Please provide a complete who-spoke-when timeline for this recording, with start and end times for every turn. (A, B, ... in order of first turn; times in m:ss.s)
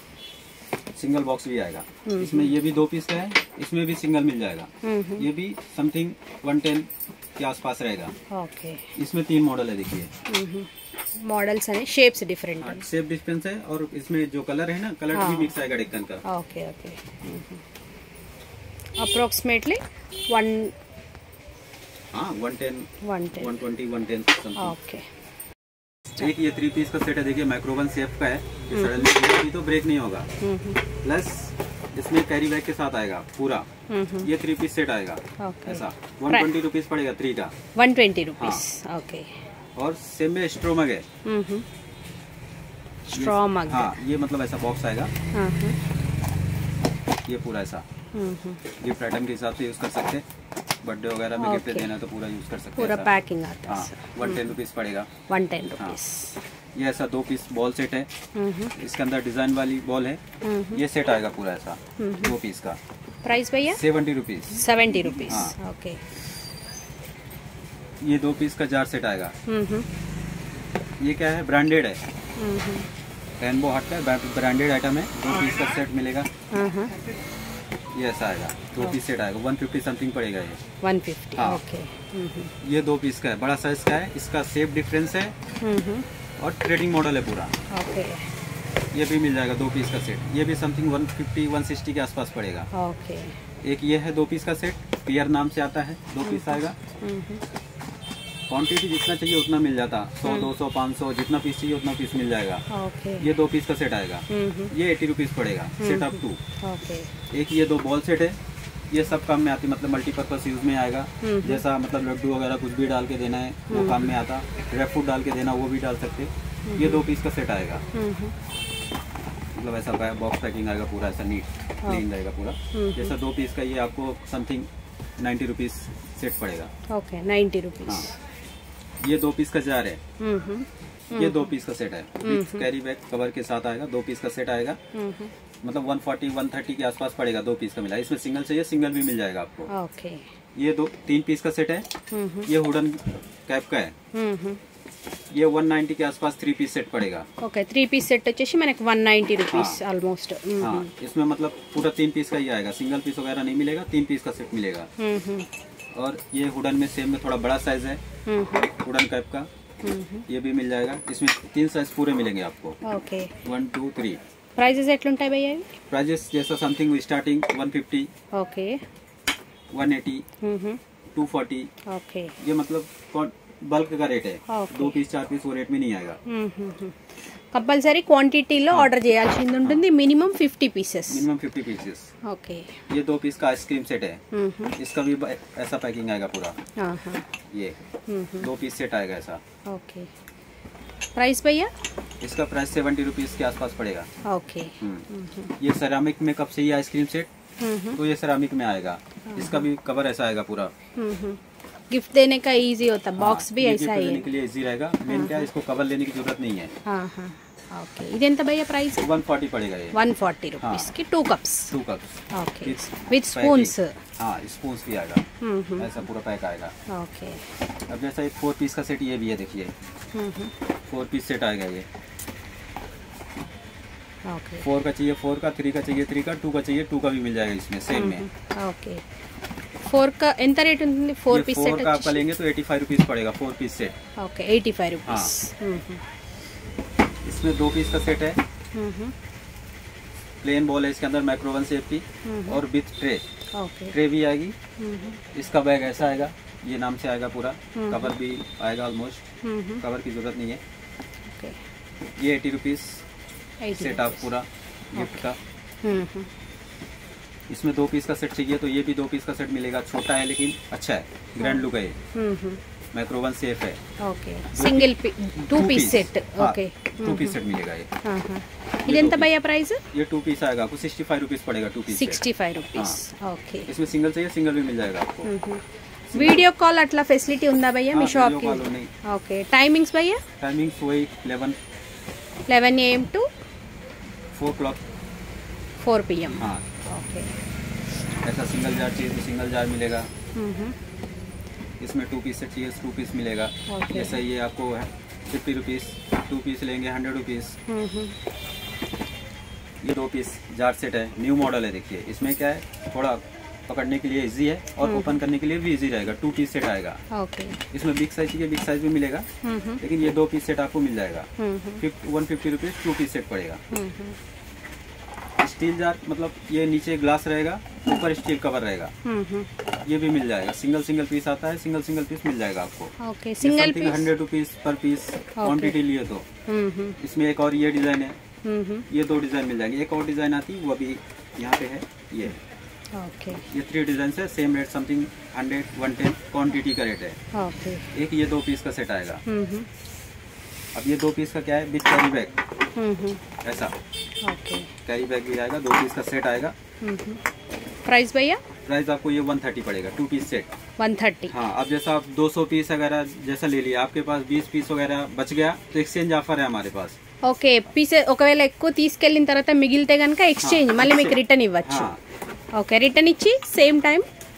0:01.0-0:08.1 A
0:02.0-0:02.5 B
0:04.8-0:05.3 B
0:08.3-0:08.9 B
0:09.0-0:10.1 A
0:10.3-0:10.7 B
0:11.2-0:12.8 B
0:12.6-0:16.2 A
0:15.1-0:15.5 B
0:16.2-0:17.6 B
0:19.0-0:20.7 B
0:22.1-0:24.8 A
0:23.0-0:23.6 B
0:24.6-0:25.0 B
0:26.2-0:30.3 A
0:28.7-0:29.1 B
0:30.4-0:30.8 B
0:31.0-0:33.7 A
0:33.9-0:34.3 B
0:34.2-0:37.5 A
0:35.4-0:36.5 B
0:37.8-0:39.3 B
0:38.4-0:38.6 A
0:39.8-0:41.0 A
0:41.2-0:41.6 B
0:43.1-0:44.0 B
0:43.1-0:45.1 A
0:45.3-0:45.8 B
0:47.3-0:47.8 A
0:48.1-0:48.6 B
0:48.8-0:50.2 A
0:50.8-0:53.1 A
0:51.4-0:51.9 B
0:52.8-0:54.4 B
0:53.7-0:55.1 A
0:55.3-0:56.4 B
0:56.7-0:58.1 A
0:58.3-0:58.7 B
0:58.7-1:00.2 A
1:00.4-1:00.8 B
1:00.7-1:02.8 A
1:02.0-1:02.3 B
1:03.2-1:03.8 B
1:03.7-1:05.5 A
1:04.5-1:06.0 B
1:08.0-1:09.3 A
1:09.5-1:09.9 B
1:11.0-1:12.0 A
1:12.4-1:12.9 B
1:13.4-1:16.3 A
1:16.5-1:16.9 B
1:17.9-1:20.6 A
1:20.8-1:22.5 B
1:21.4-1:21.6 A
1:22.6-1:25.3 A
1:25.6-1:26.0 B
1:26.4-1:27.5 A
1:27.7-1:28.2 B
1:28.9-1:32.7 A
1:32.7-1:33.3 B
1:33.6-1:36.8 A
1:36.2-1:37.4 B
1:38.5-1:42.6 A
1:40.2-1:40.5 B
1:42.7-1:43.3 B
1:43.2-1:46.4 A
1:44.3-1:44.7 B
1:45.8-1:47.1 B
1:47.3-1:48.4 A
1:48.9-1:57.8 A
1:51.2-1:51.6 B
1:53.7-1:54.1 B
1:56.7-1:57.0 B
1:57.9-1:58.3 B
1:59.5-2:04.7 A
2:02.7-2:03.1 B
2:05.2-2:06.7 A
2:06.9-2:08.1 B
2:07.8-2:08.1 A
2:09.0-2:10.0 A
2:10.2-2:11.5 B
2:11.1-2:14.8 A
2:12.2-2:12.7 B
2:14.9-2:15.3 B
2:15.6-2:19.7 A
2:19.7-2:20.2 B
2:20.5-2:21.9 A
2:22.1-2:22.5 B
2:22.4-2:23.9 A
2:24.1-2:24.6 B
2:25.3-2:27.3 A
2:27.4-2:30.9 B
2:29.5-2:29.8 A
2:30.6-2:34.9 A
2:35.0-2:35.5 B
2:35.9-2:38.0 A
2:38.2-2:38.7 B
2:38.8-2:39.5 A
2:39.8-2:40.2 B
2:40.3-2:42.8 A
2:42.8-2:43.3 B
2:43.4-2:44.2 A
2:44.6-2:45.7 B
2:45.9-2:48.1 A
2:48.3-2:48.8 B
2:49.7-2:50.2 A
2:50.4-2:50.8 B
2:51.1-2:51.7 A
2:51.9-2:52.3 B
2:52.4-2:56.2 A
2:54.5-2:55.0 B
2:56.2-2:56.9 B
2:57.5-3:01.2 B
3:01.1-3:02.1 A
3:02.2-3:02.7 B
3:02.9-3:04.2 A
3:04.3-3:04.8 B
3:04.8-3:06.6 A
3:06.8-3:07.2 B
3:07.5-3:07.8 A
3:08.1-3:08.5 B
3:08.4-3:09.4 A
3:09.7-3:10.1 B
3:11.1-3:11.7 B
3:12.2-3:14.1 A
3:14.2-3:15.5 B
3:14.8-3:15.0 A
3:15.6-3:17.3 A
3:17.6-3:18.0 B
3:17.9-3:20.7 A
3:19.3-3:19.7 B
3:21.0-3:21.4 B
3:21.9-3:24.3 B
3:23.2-3:26.7 A
3:25.1-3:25.5 B
3:26.8-3:29.1 B
3:29.0-3:30.0 A
3:29.9-3:31.7 B
3:30.6-3:30.9 A
3:31.7-3:35.2 A
3:32.3-3:34.0 B
3:35.4-3:36.0 B
3:35.8-3:36.7 A
3:36.9-3:37.4 B
3:37.9-3:39.7 A
3:40.1-3:40.5 B
3:40.9-3:41.8 A
3:44.2-3:44.6 B
3:44.6-3:48.3 A
3:47.9-3:49.0 B
3:49.9-3:52.2 B
3:51.3-3:53.9 A
3:54.2-3:56.0 B
3:55.0-3:55.3 A
3:57.2-3:58.4 A
3:58.7-3:59.1 B
4:00.4-4:03.2 A
4:02.2-4:02.6 B
4:03.5-4:03.9 B
4:03.9-4:04.6 A
4:04.8-4:05.2 B
4:05.3-4:09.2 A
4:07.7-4:08.1 B
4:09.4-4:09.8 B
4:09.8-4:10.6 A
4:12.2-4:13.0 A
4:13.6-4:14.3 B
4:13.7-4:15.4 A
4:14.9-4:15.3 B
4:15.8-4:16.3 B
4:17.5-4:22.0 A
4:21.4-4:22.6 B
4:22.9-4:23.8 A
4:24.0-4:27.4 B
4:24.5-4:27.9 A
4:28.0-4:29.8 B
4:28.8-4:29.3 A
4:29.9-4:32.2 A
4:31.9-4:33.7 B
4:33.7-4:35.3 A
4:35.2-4:35.6 B
4:36.1-4:36.5 A
4:36.1-4:40.2 B
4:37.9-4:38.9 A
4:40.4-4:41.6 A
4:42.5-4:43.3 B
4:44.3-4:44.8 A
4:45.8-4:47.3 B
4:46.4-4:46.7 A
4:48.2-4:50.1 A
4:50.3-4:50.8 B
4:51.8-4:57.6 A
4:53.7-4:54.2 B
4:57.7-4:58.1 B
4:59.8-5:07.0 A
5:04.8-5:05.2 B
5:07.1-5:07.6 B
5:07.7-5:09.3 A
5:09.4-5:09.8 B
5:09.8-5:11.3 A
5:11.4-5:11.8 B
5:11.8-5:13.6 A
5:13.7-5:14.2 B
5:15.4-5:18.9 A
5:19.0-5:19.5 B
5:19.8-5:26.2 A
5:23.0-5:24.1 B
5:25.4-5:25.8 B
5:26.5-5:27.0 B
5:27.0-5:28.2 A
5:28.4-5:28.9 B
5:28.9-5:32.4 A
5:32.9-5:33.4 B
5:33.5-5:37.2 A
5:37.3-5:37.9 B
5:37.9-5:39.2 A
5:39.2-5:39.7 B
5:40.7-5:42.3 A
5:42.8-5:43.2 B
5:43.4-5:43.7 A
5:44.2-5:44.7 B
5:44.8-5:46.6 A
5:46.8-5:47.2 B
5:47.8-5:48.4 B
5:48.7-5:50.5 A
5:50.8-5:51.4 B
5:51.3-5:57.0 A
5:57.2-6:01.9 B
6:00.4-6:02.0 A
6:02.5-6:04.1 B